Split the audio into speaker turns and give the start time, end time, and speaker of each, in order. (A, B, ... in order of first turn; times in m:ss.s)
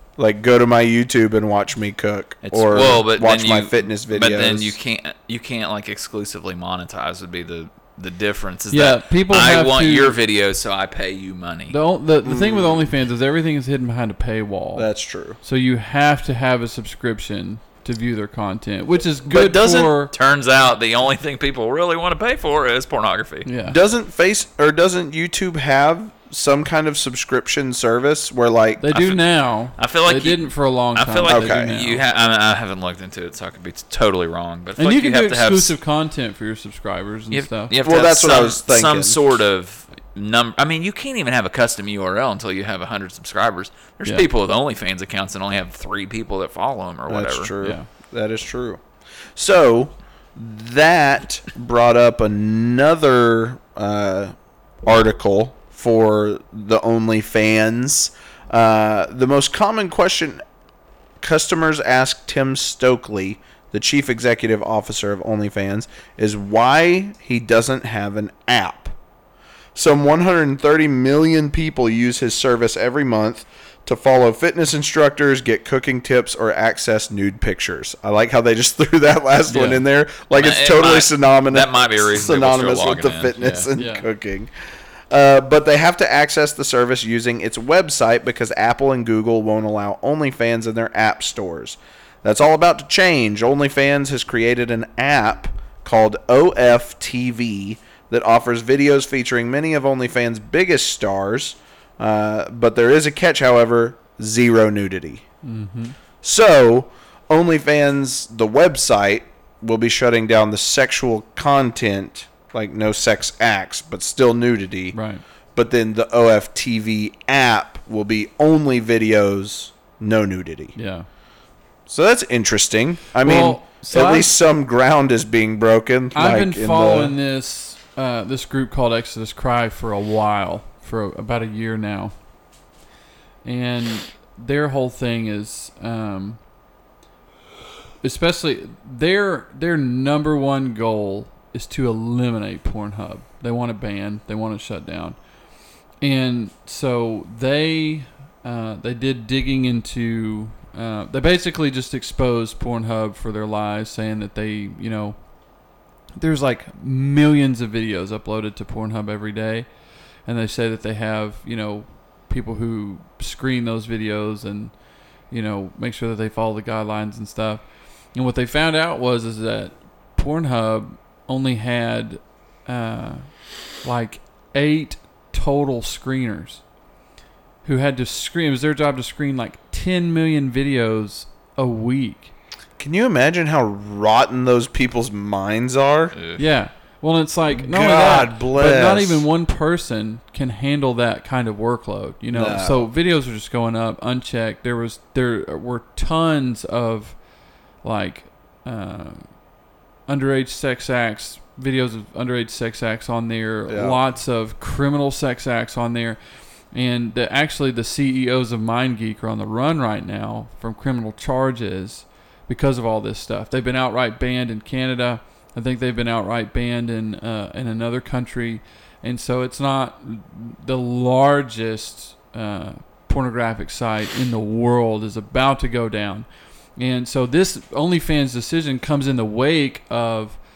0:00.2-0:04.8 A
0:02.4-0:11.8 B
0:08.7-0:10.2 C
0:11.7-0:14.9 C
0:12.2-0:12.9 A
0:14.7-0:15.4 A
0:15.4-0:20.1 C
0:19.3-0:19.9 A
0:19.3-0:23.5 B
0:23.4-0:23.8 C
0:23.7-0:28.8 A
0:28.8-0:32.0 C
0:28.9-0:29.2 B
0:29.8-0:35.7 B
0:31.3-0:31.7 A
0:34.8-0:37.7 C
0:37.3-0:47.5 B
0:37.8-0:39.2 A
0:47.1-0:48.8 A
0:47.6-0:47.9 C
0:49.3-1:00.4 A
1:01.2-1:09.0 A
1:09.7-1:24.5 A
1:19.5-1:19.8 C
1:20.3-1:23.7 B
1:23.7-1:24.0 C
1:25.1-1:45.2 A
1:45.4-1:46.0 C
1:46.2-1:55.0 A
1:54.9-1:55.2 C
1:55.5-2:00.7 A
2:00.8-2:01.0 C
2:01.9-2:07.1 A
2:03.2-2:04.3 C
2:06.1-2:12.1 C
2:13.4-2:16.4 C
2:18.0-2:25.2 C
2:26.0-2:35.2 C
2:36.2-2:39.7 C
2:40.2-2:44.7 C
2:45.3-2:56.6 C
2:57.6-3:02.3 C
3:02.8-3:06.2 A
3:06.1-3:06.4 B
3:06.4-3:17.2 C
3:07.5-3:09.2 A
3:12.3-3:12.9 A
3:17.8-3:19.3 C
3:20.1-3:26.2 C
3:23.7-3:24.0 A
3:26.7-3:50.4 C